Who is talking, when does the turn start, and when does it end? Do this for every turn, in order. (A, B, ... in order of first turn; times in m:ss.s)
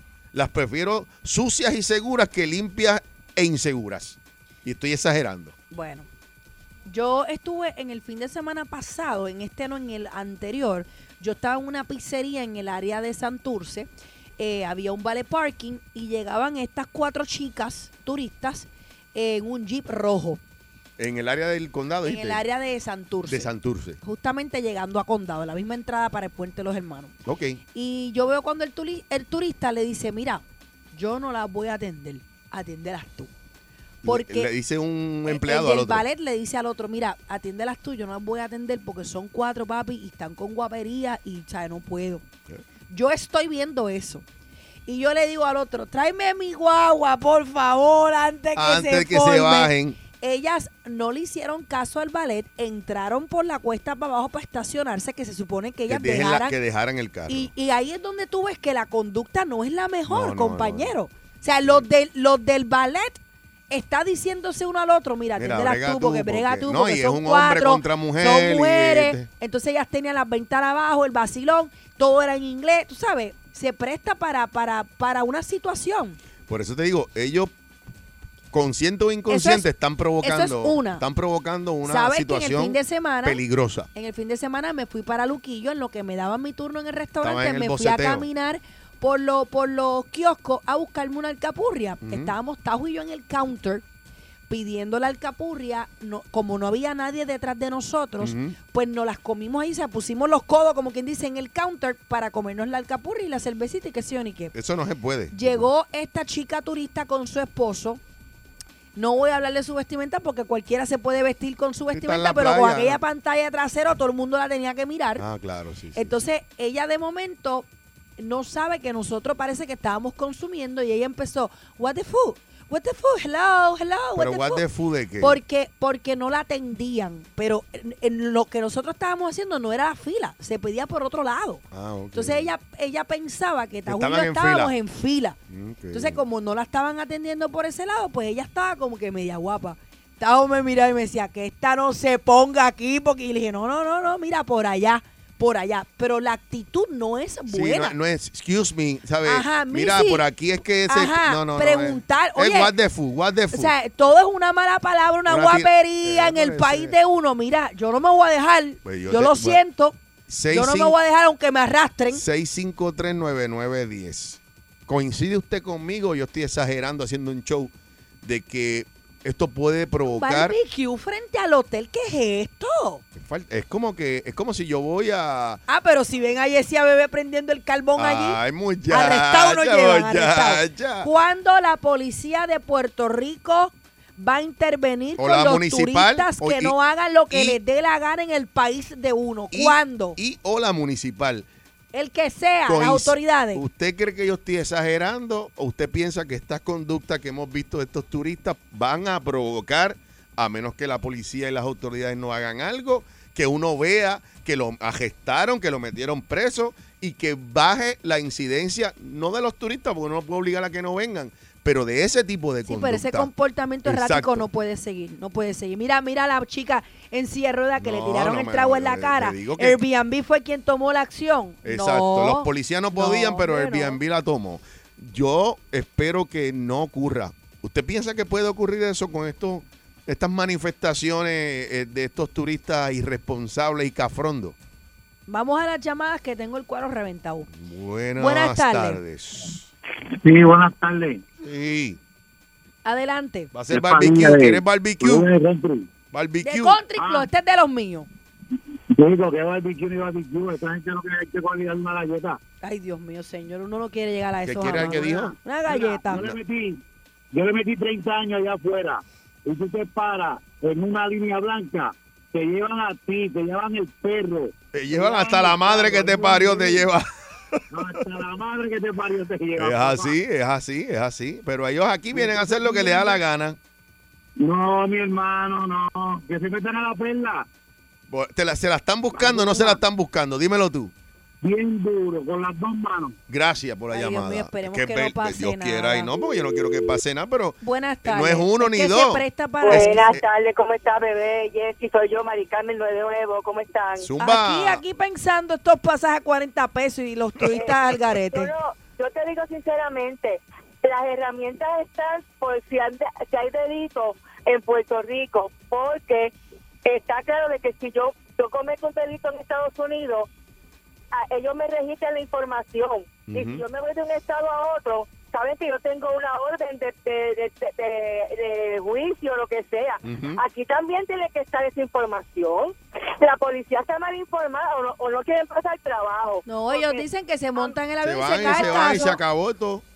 0:00.3-0:05.6 A
0:05.7-0:06.1 B
0:06.9-0:20.4 B
0:21.0-0:22.4 A
0:22.0-0:23.5 B
0:23.3-0:24.0 A
0:24.0-0:27.2 B
0:27.3-0:27.6 A
0:27.7-0:33.3 B
0:34.0-0:36.0 A
0:34.0-0:34.5 B
0:35.3-0:42.2 B
0:42.9-0:44.2 B
0:44.9-0:56.6 B
0:48.6-0:50.0 A
0:55.9-0:57.5 A
0:57.3-1:03.2 B
1:00.1-1:00.9 A
1:03.7-1:16.2 B
1:05.4-1:09.3 A
1:16.5-1:17.5 A
1:18.5-1:23.9 A
1:19.3-1:19.7 B
1:20.2-1:21.0 B
1:21.8-1:23.4 B
1:24.0-1:33.8 B
1:27.2-1:28.3 A
1:32.0-1:32.3 A
1:34.5-1:44.5 B
1:38.2-1:38.6 A
1:44.5-1:45.7 A
1:45.3-1:48.0 B
1:49.0-1:55.2 B
1:51.9-1:53.0 A
1:55.2-1:56.2 A
1:56.0-1:57.7 B
1:58.2-2:04.6 B
2:04.2-2:05.4 A
2:05.2-2:15.4 B
2:11.7-2:12.5 A
2:13.9-2:14.7 A
2:15.5-2:16.2 A
2:15.9-2:28.0 B
2:27.5-2:33.7 A
2:29.2-2:30.2 B
2:30.9-2:32.7 B
2:33.5-2:40.0 B
2:35.3-2:37.0 A
2:38.8-2:39.6 A
2:40.3-2:41.0 A
2:40.5-2:42.2 B
2:42.1-2:50.6 A
2:50.1-2:53.0 B
2:53.2-2:55.6 A
2:55.7-3:10.2 B
2:58.0-3:01.1 A
3:05.2-3:06.8 A
3:07.3-3:07.6 A
3:09.5-3:11.5 A
3:11.9-3:13.6 B
3:12.7-3:33.3 A
3:32.7-3:44.0 B
3:33.8-3:34.5 A
3:37.8-3:39.8 A
3:41.6-3:54.6 A
3:55.3-3:57.5 B
3:57.5-3:59.7 A
3:58.2-3:59.0 B
4:00.1-4:01.2 C
4:01.4-4:02.0 A
4:02.8-4:03.5 B
4:03.5-4:05.3 A
4:03.7-4:05.9 C
4:06.1-4:06.8 A
4:06.4-4:08.1 B
4:07.0-4:07.3 C
4:08.9-4:12.4 C
4:12.6-4:16.3 B
4:14.4-4:15.3 A
4:15.0-4:16.8 C
4:17.3-4:26.9 C
4:24.7-4:27.6 A
4:27.7-4:30.2 C
4:29.6-4:33.6 A
4:32.1-4:33.2 C
4:32.3-4:33.1 B
4:34.4-4:37.5 C
4:38.1-4:40.9 A
4:39.2-4:39.8 B
4:41.4-4:43.2 C
4:43.3-4:50.2 A
4:43.9-4:46.1 B
4:47.6-4:50.1 B
4:49.6-4:54.1 D
4:54.0-4:54.8 A
4:54.2-4:58.5 B
4:57.5-4:57.8 D
4:58.3-5:06.3 D
5:06.8-5:10.3 D
5:11.1-5:27.0 D
5:13.3-5:13.6 A
5:20.0-5:20.4 A
5:26.5-5:29.2 B
5:28.0-5:29.8 A
5:28.5-5:29.1 D